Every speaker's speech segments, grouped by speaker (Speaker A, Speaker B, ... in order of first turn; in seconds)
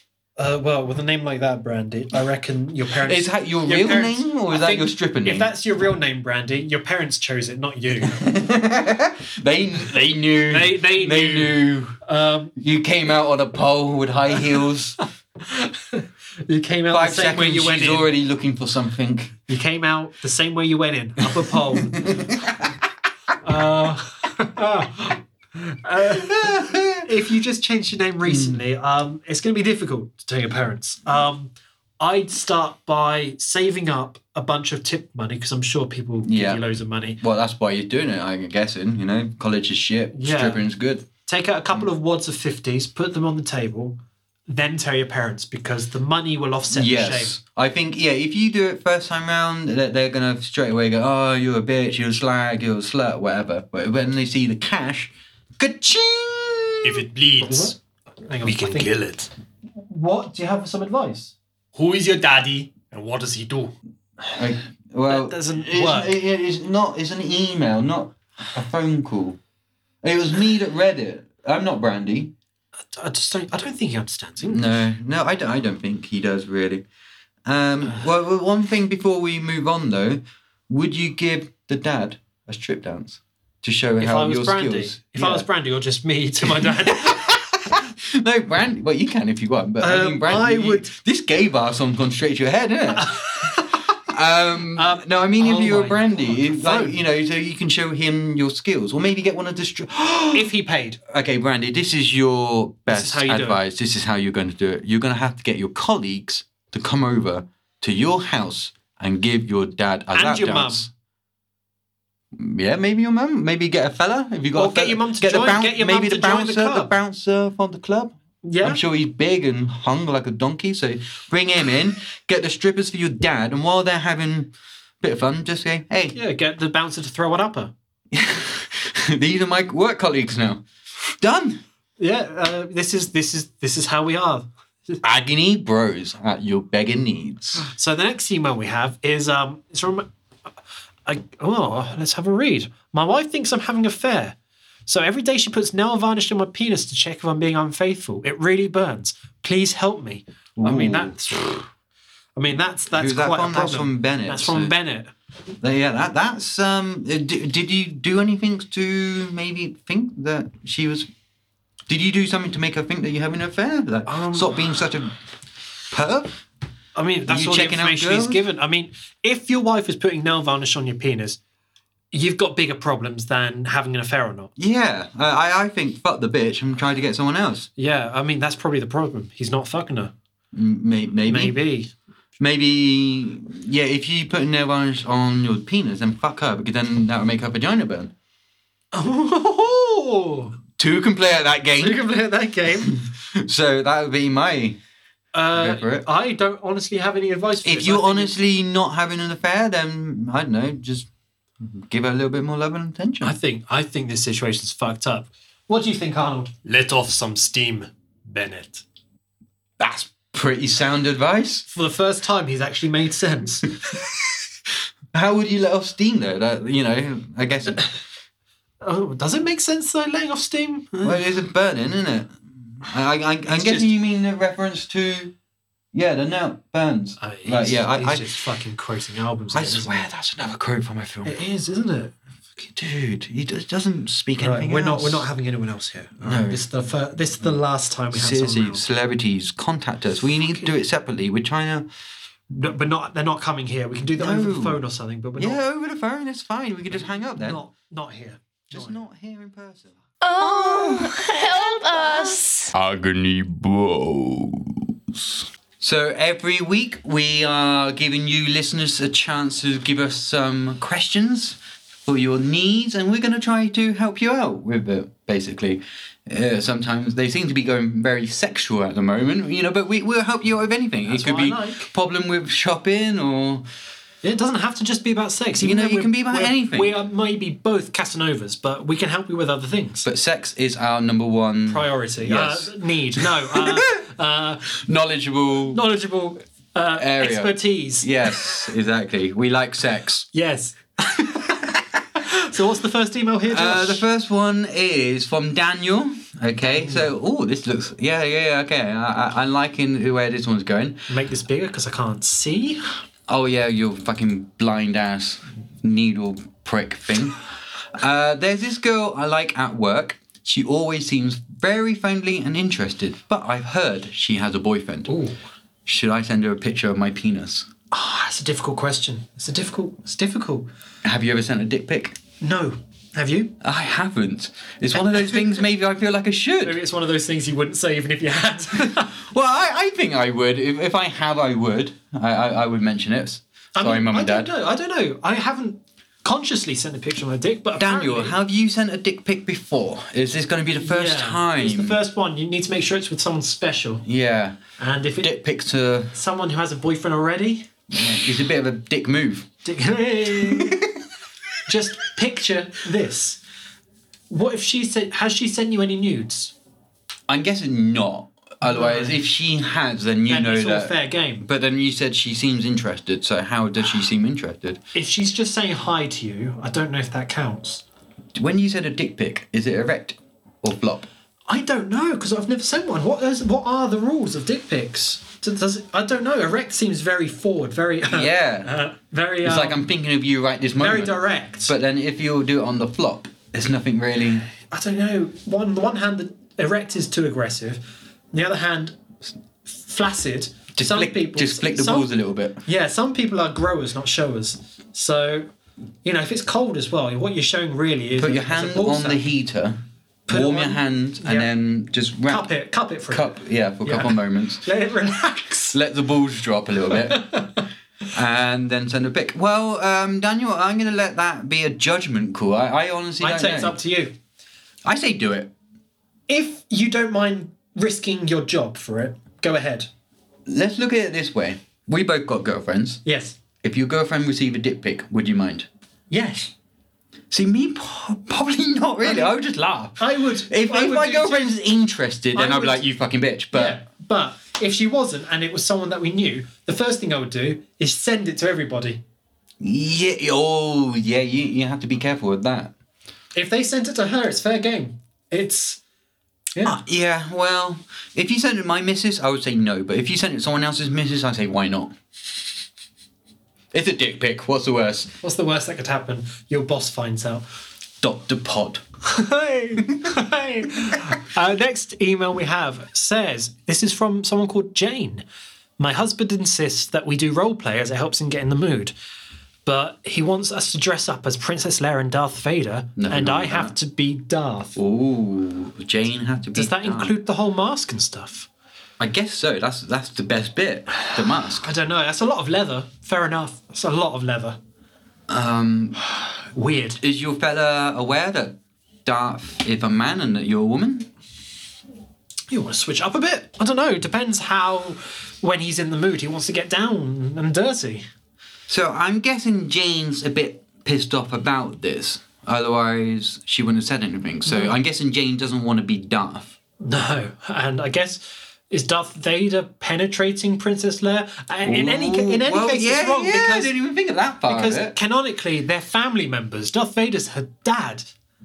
Speaker A: 0.4-8.4, 10.5-12.5, 15.4-18.1, 19.5-22.1, 23.4-37.2, 40.1-40.6, 41.2-47.4, 57.4-58.9, 59.8-61.3, 65.1-66.1, 72.9-74.8, 84.0-87.4, 89.8-90.9, 92.9-93.8, 94.7-97.0, 100.3-101.0, 102.9-103.6, 110.1-110.9, 114.5-116.9, 118.4-118.8, 126.1-127.7, 132.0-135.0, 137.6-140.1, 141.1-144.3, 144.9-151.7, 152.4-155.1, 164.1-164.6, 166.9-171.4, 172.1-174.5, 177.8-180.1, 181.2-181.9, 188.9-190.6, 191.8-193.0, 195.3-198.3, 203.2-206.6, 208.6-208.8, 211.7-214.0, 218.8-221.2, 223.6-223.9, 227.2-230.1, 231.2-232.1, 234.4-238.8, 242.5-245.6, 247.0-249.0, 271.1-271.9, 274.2-280.1, 281.7-284.6, 285.7-288.3, 290.3-291.6, 292.2-294.1, 296.6-297.1, 301.1-302.9, 315.1-315.4, 317.9-320.7, 322.4-323.6, 325.1-325.4, 326.6-329.1, 333.8-338.4, 340.8-344.1, 344.8-345.3, 346.1-347.7, 349.6-350.9, 351.6-353.4, 354.3-356.6, 358.6-359.2, 360.3-361.5, 364.9-367.8, 371.5-379.8, 380.8-381.7, 384.6-389.0, 389.6-392.1, 392.6-395.5, 396.0-399.2, 400.3-401.5, 402.3-405.8, 407.0-407.6, 413.2-414.1, 416.3-419.9, 423.1-423.4, 426.1-426.5, 429.0-429.4, 430.0-431.6, 432.3-432.8, 433.5-439.0, 443.4-445.8, 455.2-457.4, 459.0-465.2, 465.8-468.9, 469.6-474.8, 476.5-478.5, 481.6-484.6, 486.5-487.0, 492.5-498.1, 504.5-504.7, 506.8-513.8, 514.5-518.1
Speaker B: 3.0-5.5, 8.0-12.0, 12.6-15.0, 16.9-19.3, 21.7-22.8, 26.0-27.1, 28.2-28.6, 36.2-36.6, 37.2-41.1, 46.7-57.1, 64.3-69.4, 70.0-72.3, 74.5-76.8, 77.5-85.5, 86.4-100.5, 101.1-110.9, 112.3-126.2, 128.1-131.6, 135.0-137.7, 150.6-151.2, 152.9-154.7, 155.6-161.1, 161.9-165.2, 165.9-166.4, 167.2-168.4, 174.6-177.7, 180.5-181.6, 182.4-188.1, 190.8-192.1, 192.8-194.8, 195.5-196.1, 197.6-201.1, 201.6-203.3, 209.8-211.7, 215.1-217.9, 221.0-225.3, 225.9-228.3, 229.5-231.3, 232.6-235.3, 236.2-236.6, 238.1-241.9, 244.2-244.8, 245.4-247.6, 248.7-249.9, 255.8-273.6, 275.6-277.0, 280.0-283.9, 284.7-285.8, 287.0-290.3, 291.6-292.0, 293.5-301.1, 303.3-307.4, 307.9-315.1, 315.9-317.7, 321.0-322.2, 323.6-326.8, 329.0-334.5, 337.8-342.0, 344.1-344.6, 345.2-346.1, 347.9-349.5, 350.4-350.9, 357.3-364.8, 368.4-371.1, 378.0-378.7, 379.4-384.5, 390.8-392.6, 398.2-402.5, 403.1-404.6, 405.7-407.3, 408.1-413.8, 414.8-415.5, 420.5-423.0, 423.6-425.7, 427.3-433.8, 439.6-442.7, 446.6-451.9, 453.7-455.1, 458.0-458.8, 473.0-473.7, 474.8-477.1, 479.0-481.7, 485.3-486.1, 487.0-491.1, 498.7-506.6, 511.6-515.0
Speaker C: 56.8-57.8, 58.4-59.3, 61.8-63.7, 206.6-208.6
Speaker D: 250.2-252.7
Speaker E: 252.7-255.3